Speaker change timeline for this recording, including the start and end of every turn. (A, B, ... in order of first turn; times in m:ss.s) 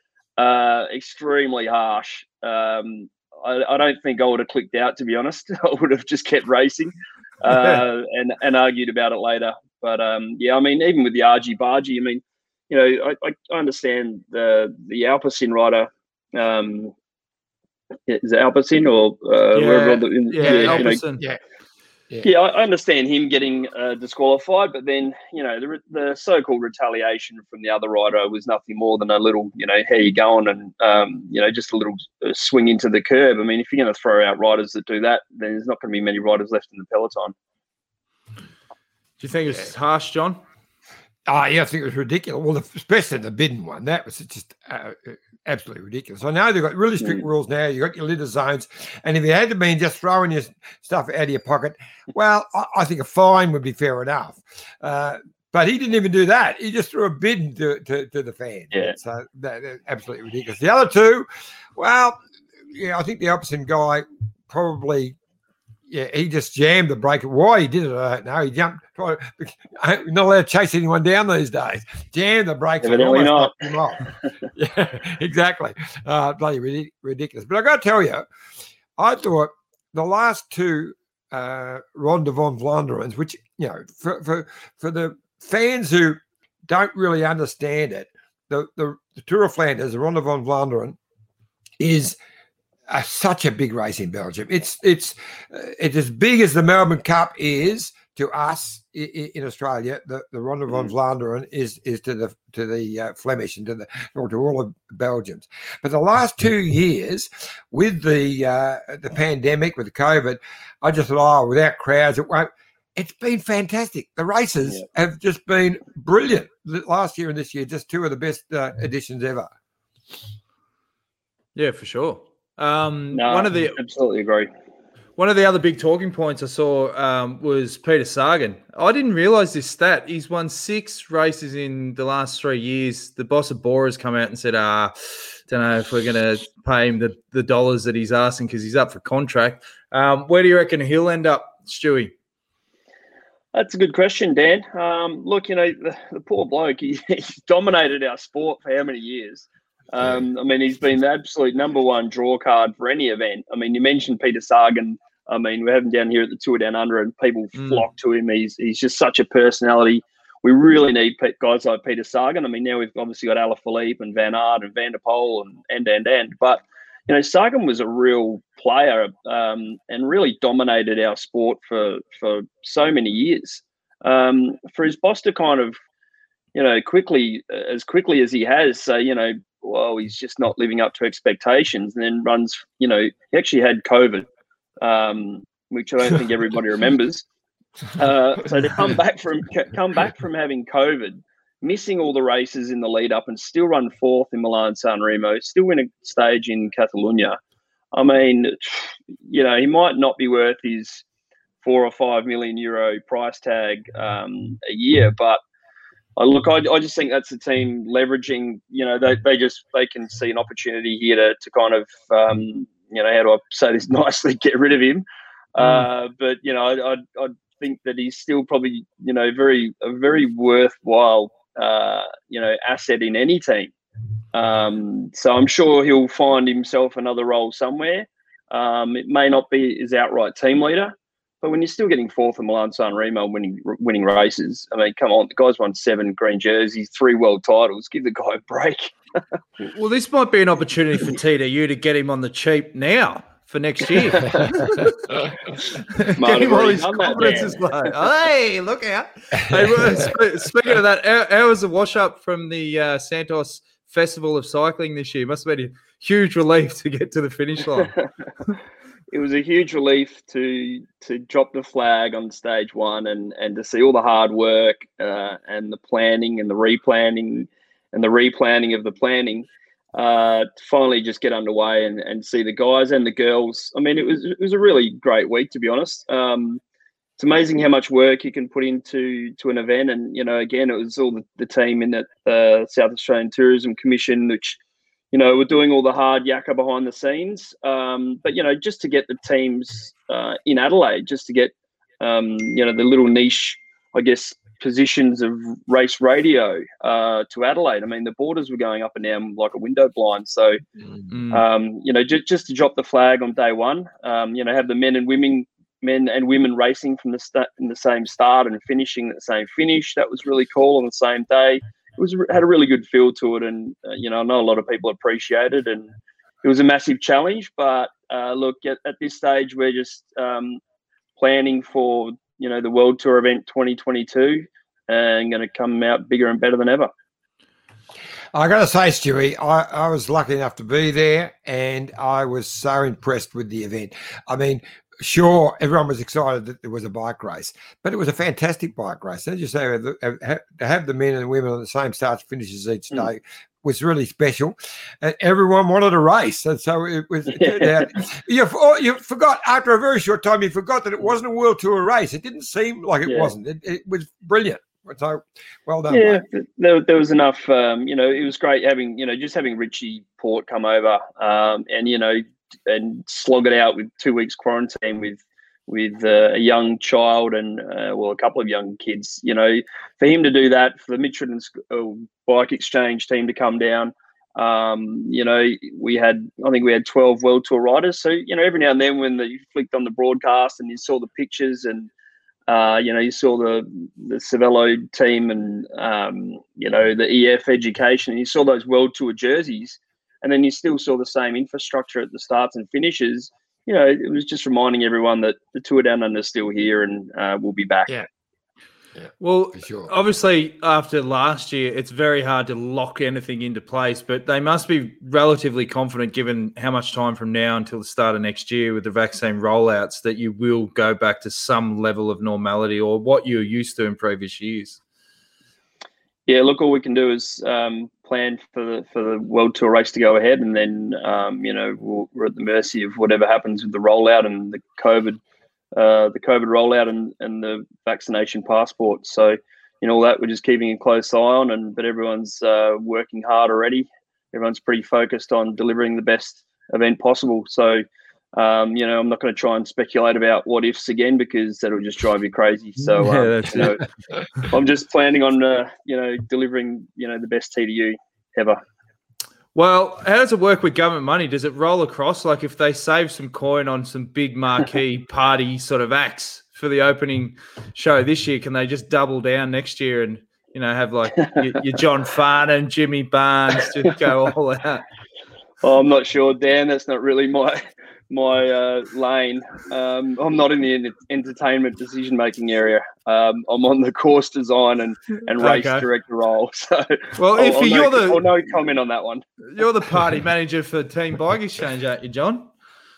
0:00.4-0:16.9 A
0:07.5-0:07.8 B
0:18.1-0:21.0 A
0:19.6-0:21.2 B
0:20.4-0:21.4 C
0:22.2-0:37.3 A
0:39.2-0:40.4 B
0:41.3-1:05.2 C
1:05.9-1:14.0 C
1:12.8-1:13.5 A
1:14.6-1:18.3 C
1:19.0-1:31.0 C
1:31.8-1:32.2 C
1:32.9-1:59.5 C
2:01.6-2:03.8 B
2:03.1-2:04.5 A
2:05.2-2:22.1 B
2:23.5-2:55.8 A
2:37.6-2:37.9 B
2:56.5-3:04.3 A
3:04.8-3:07.2 A
3:08.0-3:17.4 A
3:17.9-3:21.0 A
3:21.6-3:25.4 A
3:26.2-3:35.0 A
3:35.6-3:43.7 A
3:35.6-3:35.9 B
3:44.3-3:58.9 A
3:59.6-4:04.9 B
4:04.1-4:04.5 A
4:06.0-4:17.9 B
4:06.2-4:07.6 A
4:19.1-4:36.6 A
4:37.2-4:44.6 A
4:45.1-5:00.6 A
5:01.1-5:01.4 B
5:01.3-5:15.9 A
5:16.4-5:20.6 A
5:21.2-5:26.9 A
5:28.3-5:56.2 C
5:47.4-5:47.9 A
5:53.1-5:53.3 A
5:55.9-6:21.9 A
6:22.5-6:37.9 A
6:39.0-6:39.9 C
6:39.2-6:54.8 B
6:56.3-7:05.2 A
7:05.8-7:17.8 A
7:18.4-7:23.8 A
7:23.0-7:23.8 B
7:24.5-7:28.6 A
7:29.6-7:44.8 B
7:45.6-7:59.2 A
7:55.4-7:55.9 B
7:57.2-7:58.3 B
7:59.5-8:02.5 B